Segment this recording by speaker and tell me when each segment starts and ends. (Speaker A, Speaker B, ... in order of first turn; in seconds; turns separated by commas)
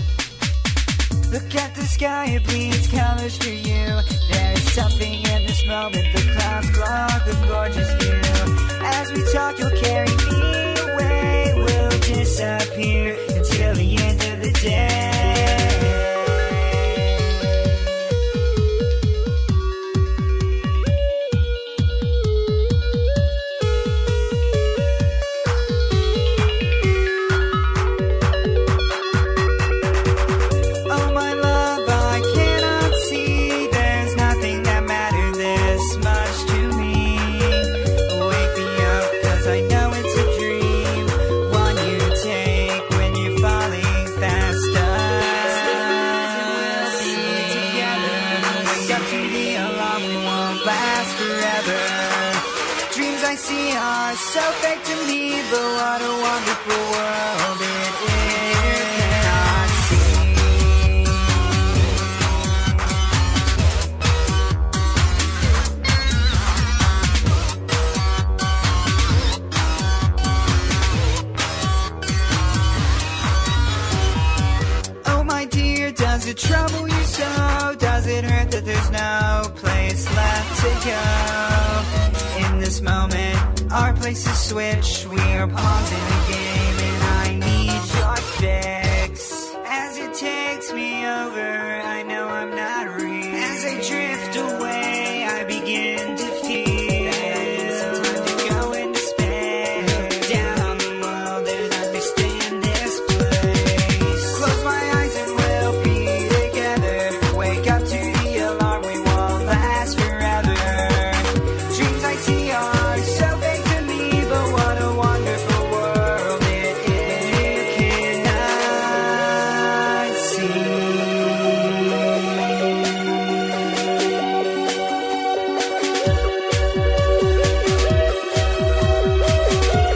Speaker A: 1.3-17.7, Speaker A: 30.9-62.0, Speaker A: 75.0-122.2